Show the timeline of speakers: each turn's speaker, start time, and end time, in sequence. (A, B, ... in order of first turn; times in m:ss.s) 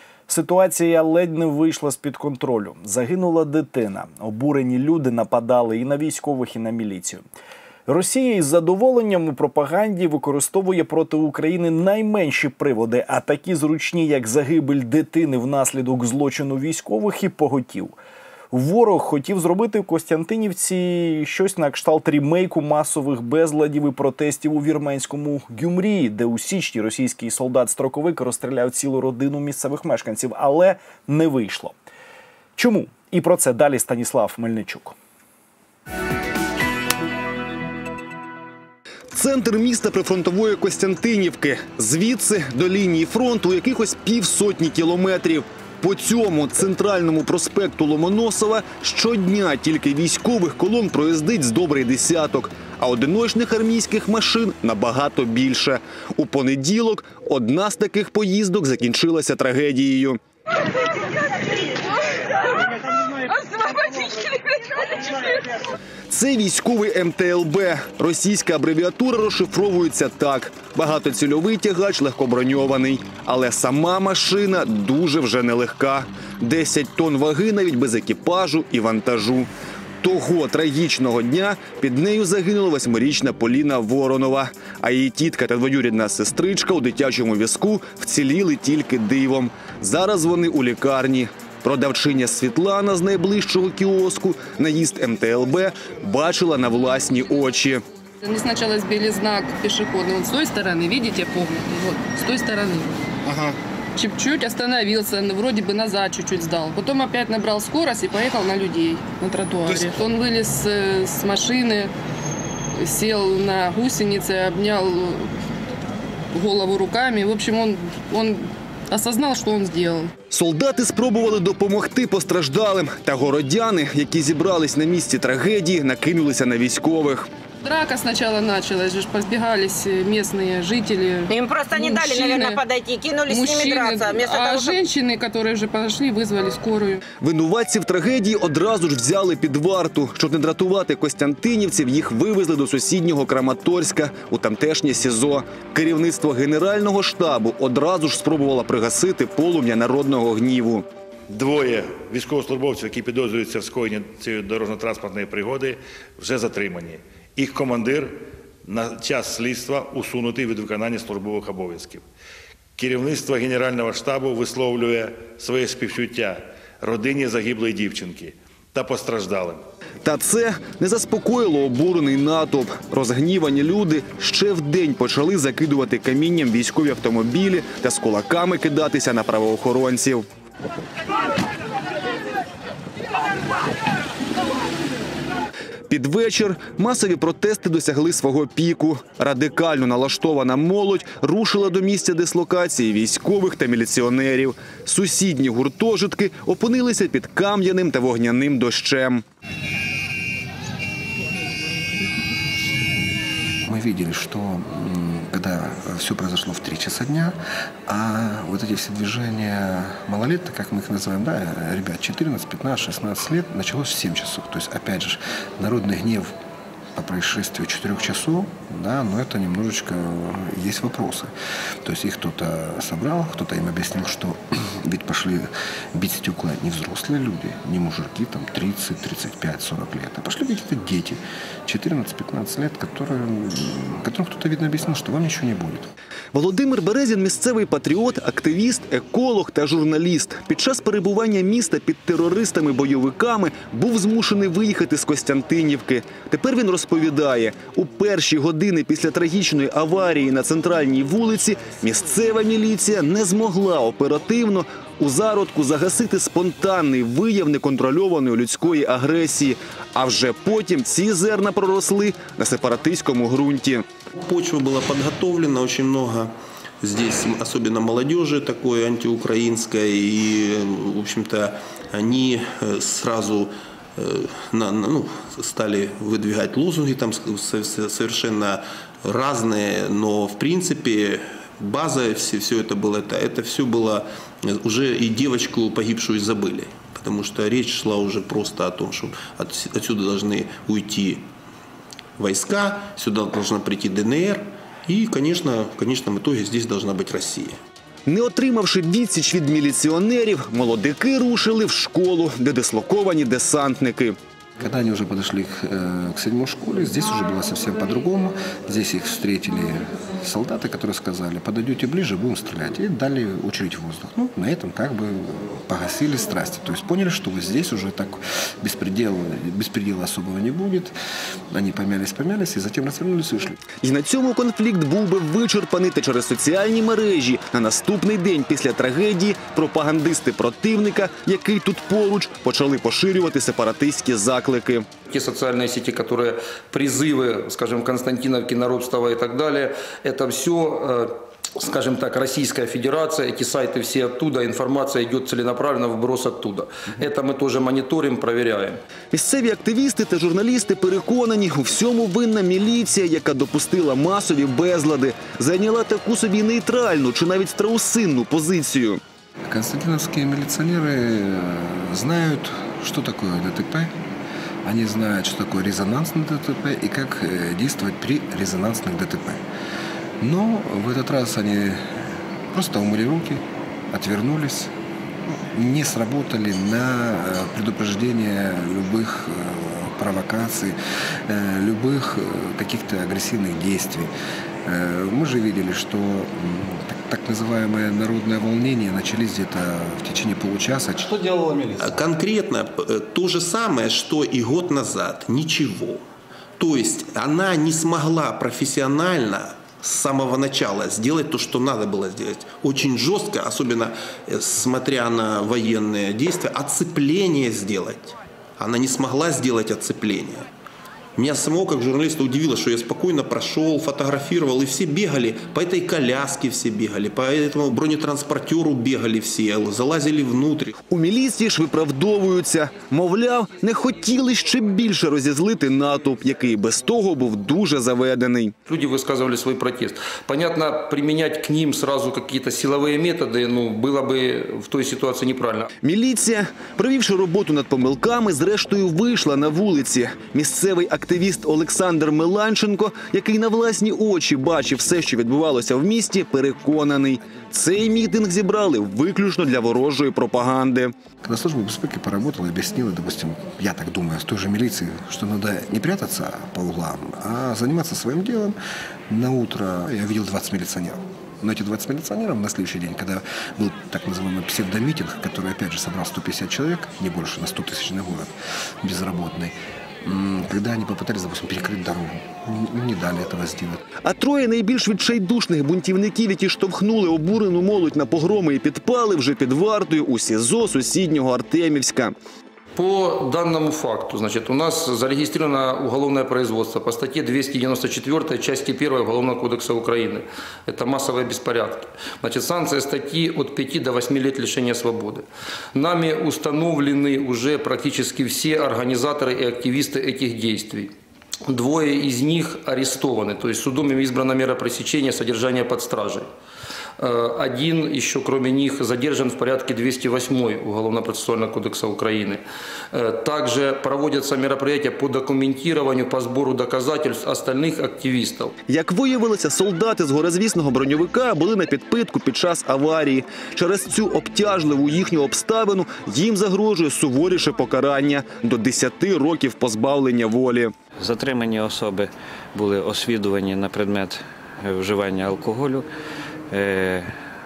0:00.3-0:07.3 A
0:07.9-0:18.0 A
0:18.5-0:31.8 A
0:32.6-0:35.0 A
0:39.1-1:00.2 B
1:03.4-1:05.1 C
1:06.1-1:19.5 B
1:20.0-1:37.8 B
1:38.2-1:43.0 D
1:43.2-1:43.6 B
1:44.0-1:51.9 D
1:52.8-1:55.3 D
1:56.3-2:00.1 D
2:00.3-2:07.3 B
2:07.6-2:12.6 D
2:11.3-2:14.8 C
2:13.3-2:17.0 D
2:17.2-2:30.8 B
2:31.3-2:42.1 E
2:42.8-2:49.6 E
2:50.0-3:00.3 B
3:05.9-3:19.2 B
3:23.6-3:27.4 F
3:27.9-3:36.3 F
3:37.0-3:41.3 F
3:41.8-3:55.9 F
3:56.3-4:23.9 B
4:24.2-4:51.3 G
4:52.2-4:57.6 G
4:58.1-5:04.2 B
5:04.6-5:21.0 F
5:21.5-5:23.6 F
5:23.8-5:34.9 B
5:35.1-5:48.8 H
5:49.1-5:59.0 B
5:59.5-6:03.9 F
6:04.6-6:09.4 F
6:10.2-6:14.7 F
6:15.3-6:20.8 F
6:21.3-6:24.1 F
6:24.7-6:31.2 F
6:31.8-6:36.0 G
6:36.6-6:50.5 G
6:51.2-7:00.8 G
7:00.9-7:08.5 B
7:08.7-7:15.7 H
7:15.8-7:30.9 B
7:31.2-7:38.6 F
7:39.1-7:53.8 F
7:54.0-8:02.1 B
8:02.8-8:15.2 H
8:15.7-8:20.9 H
8:21.5-8:26.2 H
8:27.0-8:32.4 H
8:32.9-8:38.5 H
8:38.7-8:50.7 B
8:51.0-8:55.9 I
8:56.5-8:57.1 I